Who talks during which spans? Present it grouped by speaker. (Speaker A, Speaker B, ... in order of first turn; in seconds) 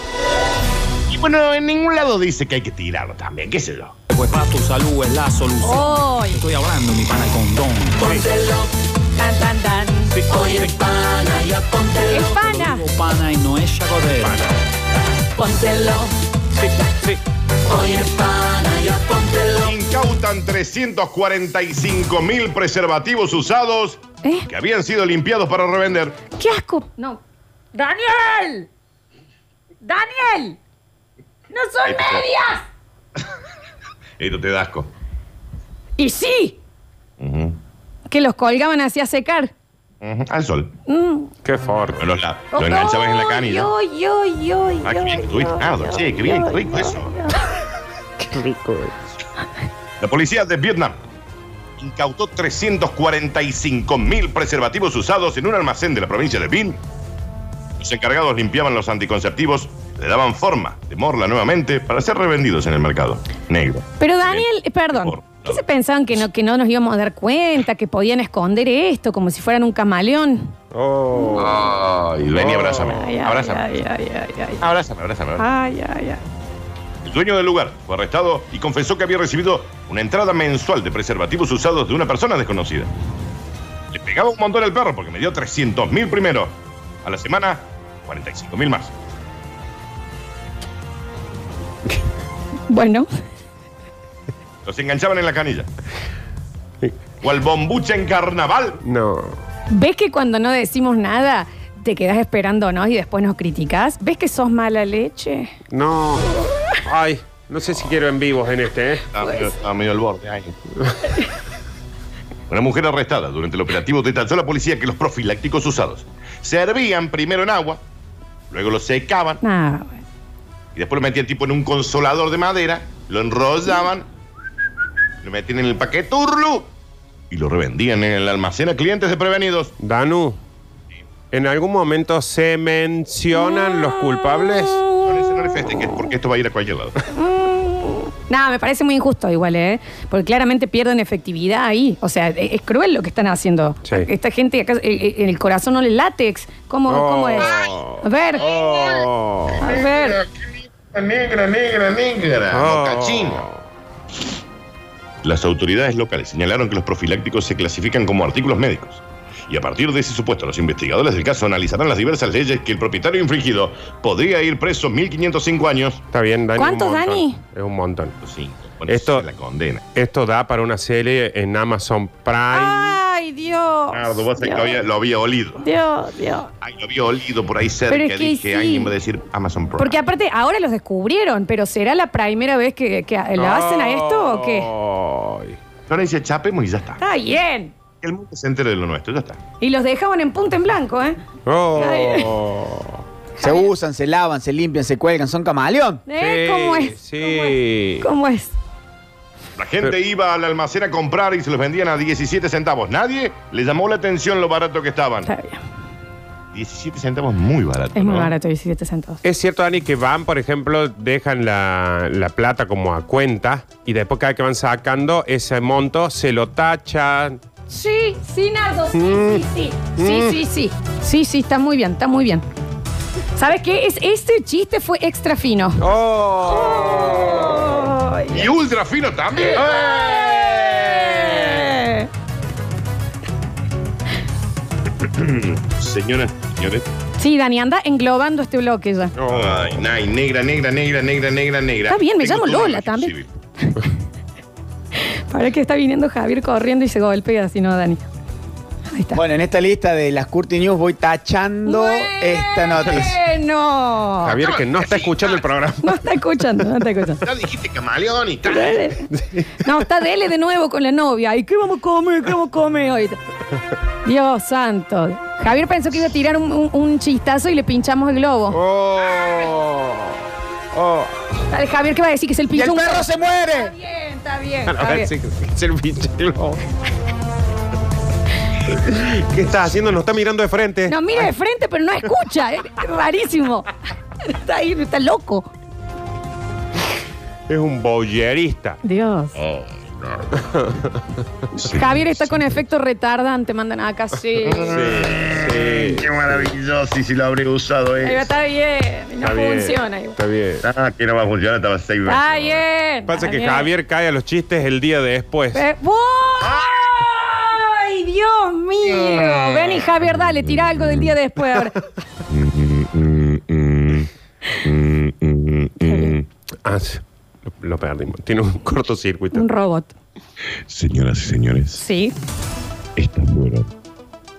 Speaker A: 1.1-4.0, 19.6-26.2, 31.9-32.3, 34.2-34.9, 37.2-37.6, 40.0-40.7, 42.0-43.7, 44.8-47.1, 50.0-51.0, 51.8-56.8, 57.8-65.6, 71.3-73.6, 74.6-75.4, 77.0-82.9, 83.9-88.9, 94.7-95.7, 97.2-98.8, 109.1-110.6, 112.5-117.8, 118.5-119.4, 120.8-124.1, 125.2-126.7, 127.3-129.7, 135.1-137.0, 148.4-149.0, 149.6-153.4, 155.2-166.0, 168.2-169.8, 173.9-175.6, 176.6-180.0, 185.9-187.0, 188.0-189.4, 199.6-205.3, 206.5-208.3, 228.3-231.7, 235.0-236.8, 239.3-243.3, 254.4-255.4, 257.2-258.8, 289.4-290.4, 291.6-292.2, 294.4-298.3, 300.6-302.6, 306.4-307.1, 309.1-309.8, 310.3-311.1, 312.3-316.3, 320.7-321.8, 323.0-323.7
Speaker B: 4.2-5.8, 6.4-8.2, 10.8-12.0, 12.7-14.3, 17.8-19.4
Speaker C: 5.6-6.5, 9.2-10.6, 12.1-12.9, 24.2-24.5, 26.4-27.2, 27.7-28.7, 29.8-30.6, 31.5-32.6, 36.0-36.6, 38.1-39.5, 40.9-41.3, 42.5-47.4, 64.0-70.5, 72.9-74.6, 75.4-76.2, 92.7-93.1, 99.7-105.5, 119.4-120.0, 137.1-148.5, 149.6-150.2, 166.6-167.4, 172.5-174.8, 175.6-176.5, 177.9-178.9, 179.8-184.7, 187.0-187.7, 189.6-191.2, 191.8-192.3, 193.4-193.7, 196.1-198.5, 205.2-205.6, 207.9-209.2, 217.7-222.4, 223.3-225.9, 226.5-228.5, 229.8-232.1, 237.2-239.1, 241.9-243.8, 244.9-248.0, 248.9-249.2, 251.7-254.4, 255.8-257.2, 258.5-263.2, 264.0-268.6, 271.5-275.1, 280.9-283.7, 284.2-285.5, 288.8-289.4, 291.6-295.1, 298.0-300.2, 302.1-303.7, 305.5-311.8, 315.9-316.1, 319.3-319.9, 321.8-322.1
Speaker D: 14.2-14.5, 41.4-42.0, 48.2-49.0, 70.7-71.6, 72.4-73.0, 98.8-99.4, 105.7-109.1, 129.8-130.4, 131.3-134.9, 146.9-149.6, 152.5-153.6, 166.1-168.1, 168.9-169.3, 170.0-173.0, 183.4-185.6, 191.5-193.0, 196.2-198.1, 209.2-217.4, 218.9-219.4, 220.0-220.4, 225.8-227.7, 239.2-239.8, 254.2-256.0, 268.5-270.2, 270.7-271.1, 274.7-276.6, 278.8-281.3, 287.5-288.8, 290.5-290.8, 294.7-296.4, 299.2-300.6, 303.1-305.6, 316.6-319.4
Speaker E: 193.4-196.0, 249.1-253.2, 272.5-273.7